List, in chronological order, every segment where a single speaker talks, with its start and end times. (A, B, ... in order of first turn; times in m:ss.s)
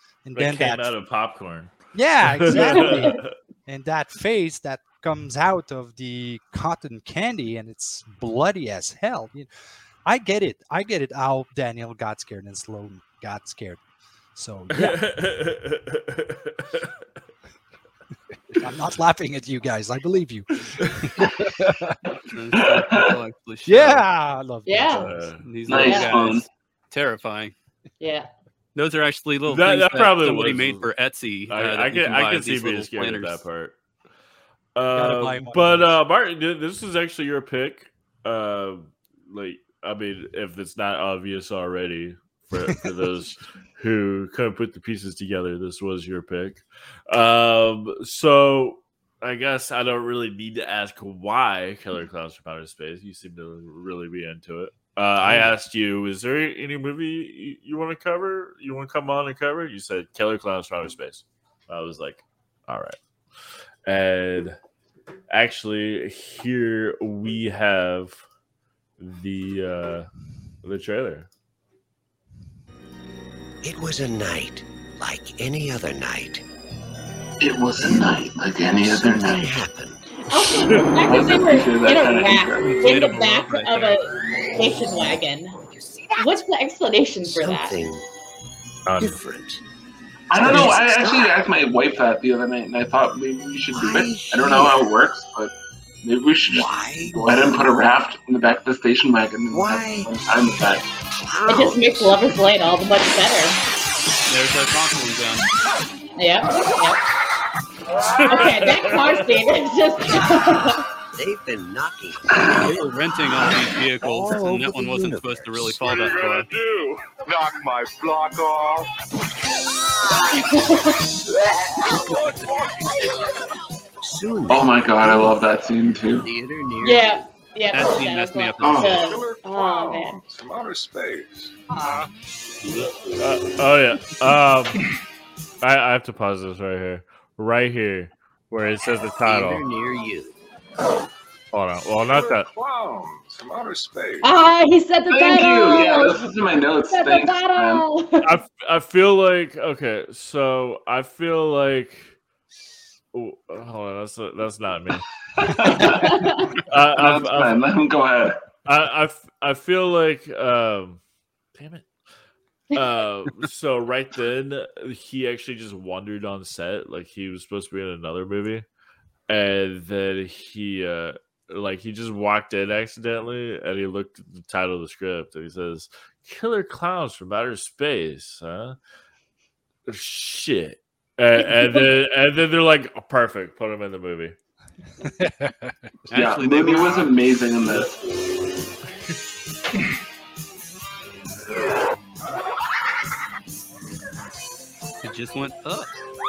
0:00.2-0:00.9 A
0:00.4-0:01.7 B
0:01.9-0:09.5 A
0:02.2-0:03.3 B
0:10.0-0:13.8 A
0:14.4-0:15.0 A
0:14.7-0:16.9 B
0:18.5-0:22.0 A
0:22.2-0:24.1 C
0:22.5-0:23.2 D
0:23.7-0:25.3 A
0:24.7-0:25.1 E
0:25.0-0:25.4 B
0:25.4-0:27.5 C
0:25.7-0:26.5 D
0:25.8-0:26.1 E
0:28.0-0:28.3 E
0:28.8-0:33.4 C
0:29.5-0:30.9 B
0:31.5-0:33.8 B
0:34.8-1:03.0 B
0:34.9-0:36.0 A
0:55.2-0:55.5 A
1:03.9-1:04.6 B
1:05.3-1:08.2 B
1:09.0-1:10.1 B
1:10.6-1:11.3 B
1:13.6-1:16.4 F
1:17.4-1:19.6 D
1:17.8-1:20.0 F
1:20.3-1:25.5 E
1:20.4-1:20.9 B
1:21.0-1:22.7 D
1:22.6-1:24.0 C
1:25.6-1:26.4 F
1:26.2-1:27.9 E
1:27.2-1:28.1 F
1:28.9-1:29.3 B
1:29.0-1:29.6 F
1:30.3-1:40.8 D
1:30.3-1:31.5 F
1:33.7-1:34.8 F
1:36.5-1:37.8 F
1:39.5-1:40.6 F
1:41.3-1:42.3 F
1:41.5-1:43.6 E
1:44.3-1:45.5 C
1:46.2-1:47.0 E
1:47.9-1:48.5 G
1:48.1-1:49.2 B
1:48.2-1:50.8 E
1:51.2-1:55.7 F
1:52.6-1:56.5 C
1:55.8-1:58.9 G
2:00.5-2:01.0 E
2:01.3-2:03.4 G
2:01.9-2:03.2 F
2:04.0-2:05.4 F
2:04.5-2:06.3 D
2:06.1-2:07.3 F
2:06.8-2:10.2 E
2:07.7-2:09.2 C
2:08.6-2:09.0 D
2:08.9-2:12.1 G
2:13.2-2:14.8 B
2:15.6-2:19.6 B
2:19.2-2:20.4 F
2:21.5-2:22.5 B
2:22.1-2:24.3 G
2:24.2-2:26.2 E
2:25.1-2:27.8 D
2:26.9-2:28.4 E
2:28.2-2:32.2 B
2:33.1-2:37.6 B
2:35.3-2:38.4 D
2:35.8-2:36.6 E
2:38.6-2:41.0 B
2:41.6-2:41.9 B
2:42.7-2:48.6 B
2:49.3-2:58.8 B
2:59.9-3:04.4 B
3:05.0-3:05.9 A
3:06.1-3:07.2 C
3:06.1-3:08.0 D
3:15.0-3:15.9 C